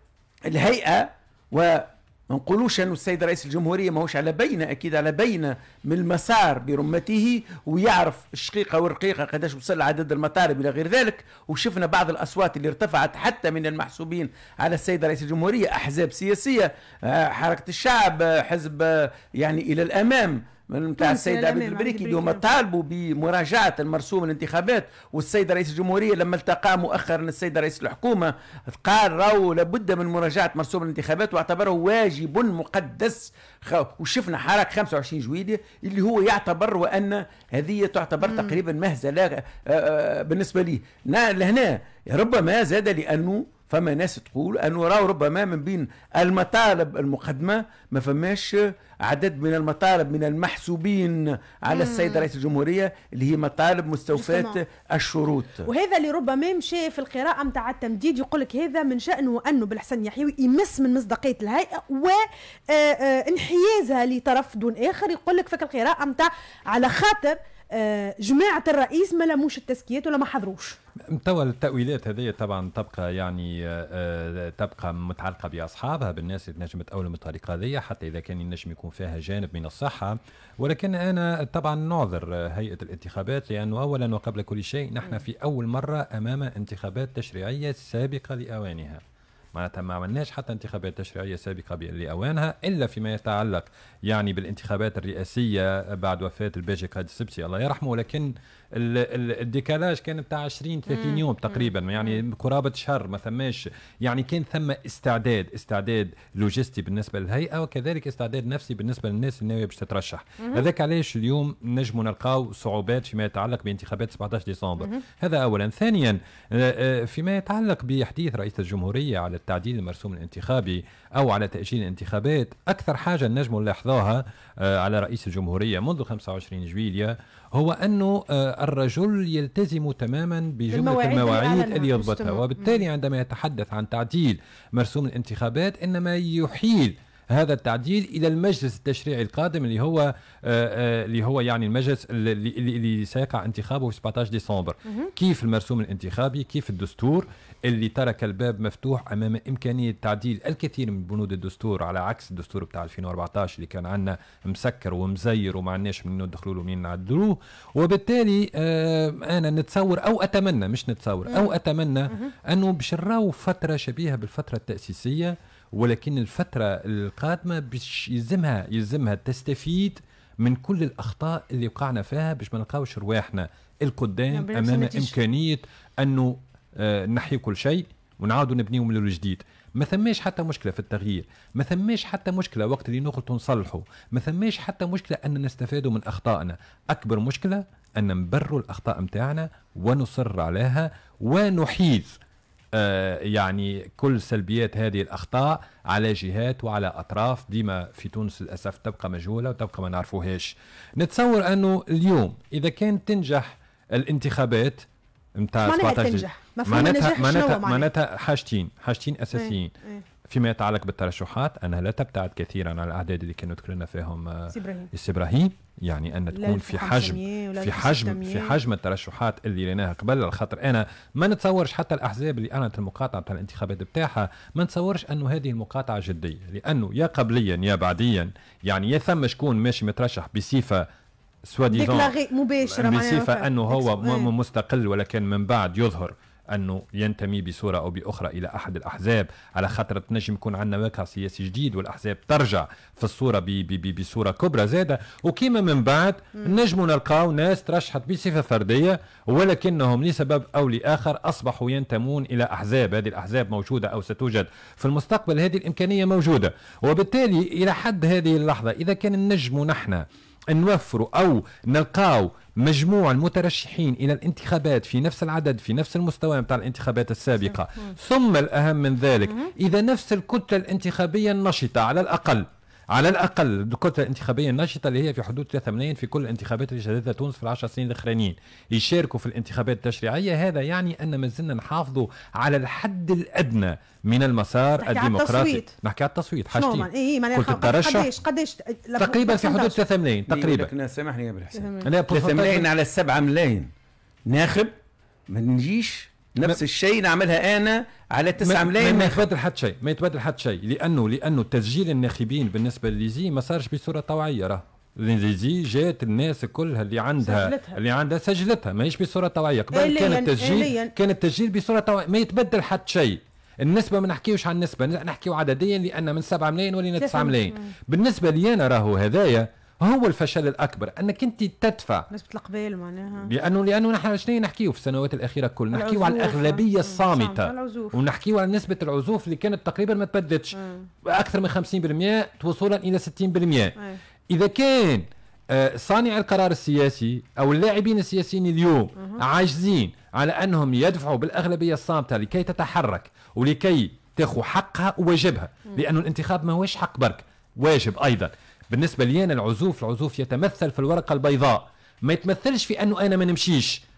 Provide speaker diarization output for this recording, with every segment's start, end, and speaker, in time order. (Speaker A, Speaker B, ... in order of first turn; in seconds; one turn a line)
Speaker A: 0.5-55.7
Speaker B: 21.0-22.4
Speaker B: 51.7-52.2
Speaker B: 54.1-54.6
Speaker B: 55.6-70.8
Speaker C: 71.1-89.0
Speaker C: 89.5-192.2
Speaker B: 100.9-101.2
Speaker B: 130.7-132.8
Speaker B: 174.3-175.1
Speaker C: 192.7-204.8
Speaker C: 205.4-209.7
Speaker B: 205.6-207.9
Speaker B: 209.3-210.0
Speaker C: 210.3-230.9
Speaker B: 214.5-214.9
Speaker B: 216.3-218.6
Speaker C: 231.5-232.1
Speaker B: 231.7-234.3
Speaker C: 232.7-288.1
Speaker B: 284.8-285.7
Speaker B: 286.5-289.8
Speaker C: 289.0-290.7
Speaker A: 290.3-293.7
Speaker B: 291.5-291.9
Speaker C: 291.8-292.6
Speaker A: 294.3-294.7
Speaker A: 295.3-299.3
Speaker C: 298.4-322.1
Speaker B: 307.2-307.8
Speaker B: 309.7-310.9
Speaker B: 317.0-317.7
Speaker B: 322.1-323.3
Speaker C: 323.2-333.8
Speaker B: 325.7-328.0
Speaker C: 334.3-353.8